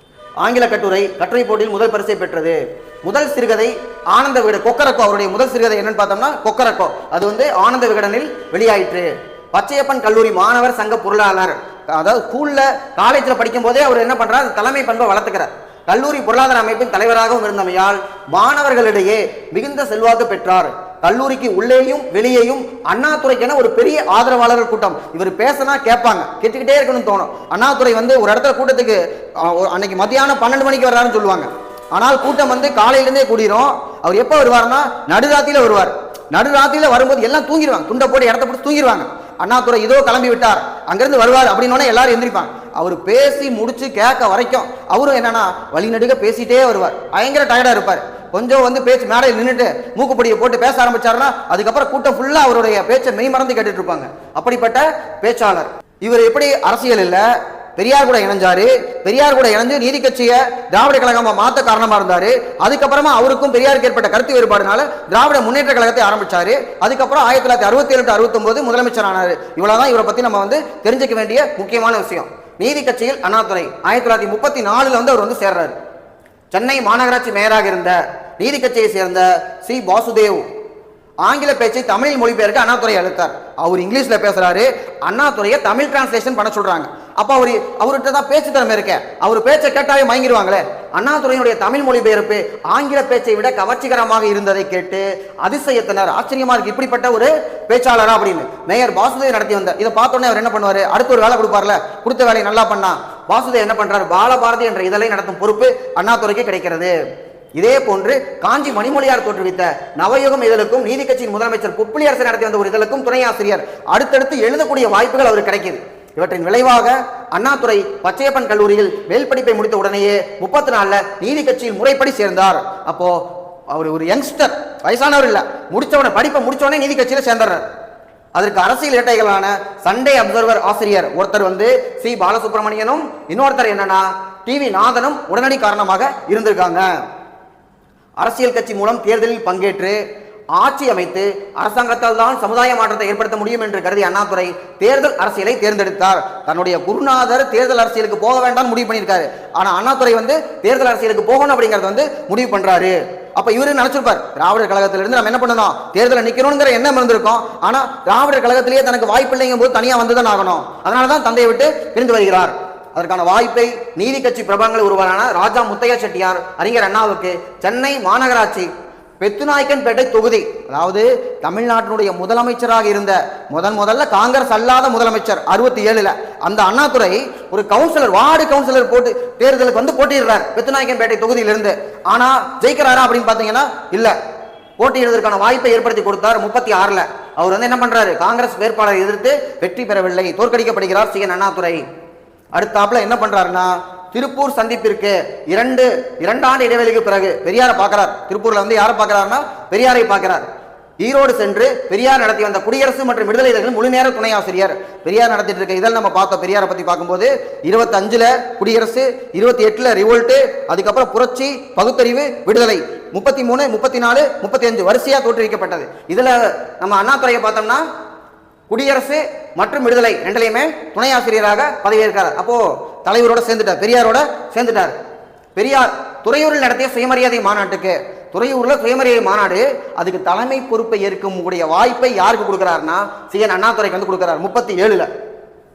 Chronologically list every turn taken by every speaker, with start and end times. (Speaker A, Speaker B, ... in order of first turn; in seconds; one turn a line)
Speaker A: 0.4-57.2
Speaker A: 57.8-75.8
Speaker A: 76.5-80.4
Speaker A: 81.2-106.9
Speaker A: 107.5-123.2
Speaker A: 123.7-127.7
Speaker A: 128.3-136.9
Speaker A: 138.2-140.0
Speaker A: 140.6-168.7
Speaker A: 169.2-184.2
Speaker A: 184.8-191.8
Speaker A: 192.5-200.5
Speaker A: 201.0-217.8
Speaker A: 218.7-224.9
Speaker A: 225.6-235.1